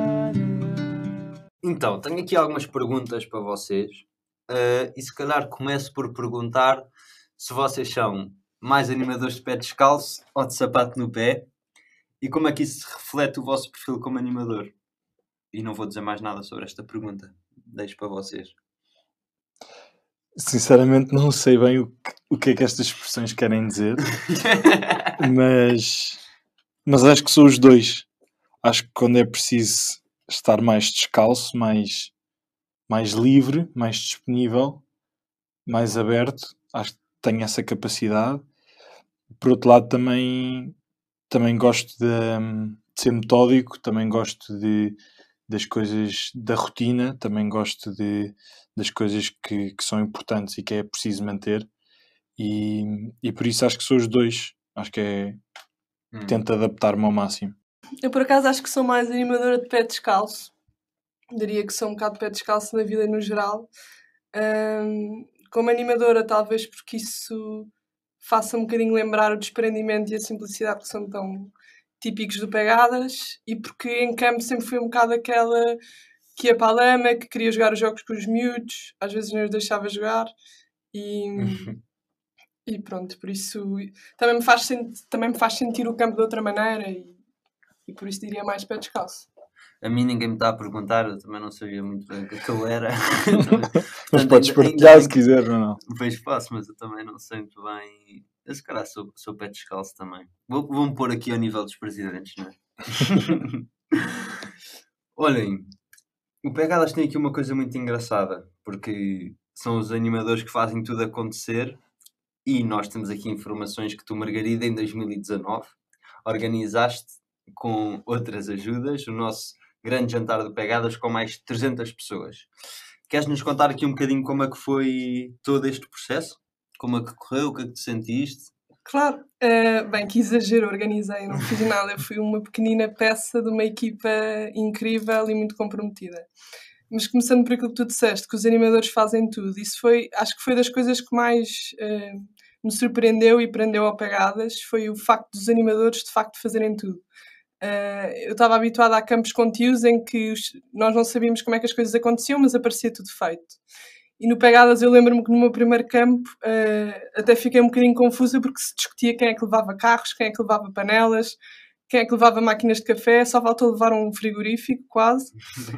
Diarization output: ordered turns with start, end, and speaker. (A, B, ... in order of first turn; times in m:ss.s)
0:01.6-0:11.5 A
0:12.2-0:14.7 A
0:15.5-0:18.6 A
0:20.4-0:24.2 B
0:24.3-0:25.1 A
0:25.2-0:26.2 B
0:26.8-0:28.1 B
0:28.6-0:32.1 B
0:32.9-0:34.8 B
0:35.6-0:38.4 B
0:39.4-0:40.8 B
0:41.3-0:45.0 B
0:45.5-0:51.7 B
0:52.4-0:55.4 B
0:56.1-0:56.4 A
0:56.3-0:57.5 B
0:58.0-1:00.5 C
1:01.3-1:03.7 C
1:04.3-1:07.7 C
1:08.2-1:15.8 C
1:16.4-1:20.3 C
1:20.9-1:21.7 C
1:21.4-1:21.8 B
1:22.6-1:27.2 C
1:27.9-1:29.3 C
1:29.8-1:35.2 A
1:34.1-1:35.8 B
1:35.8-1:44.3 A
1:45.2-1:45.7 A
1:46.4-1:51.8 A
1:52.4-2:02.5 A
2:03.1-2:08.5 A
2:08.8-2:16.3 C
2:16.9-2:27.0 C
2:27.6-2:33.6 C
2:34.2-2:41.4 C
2:41.9-2:45.3 C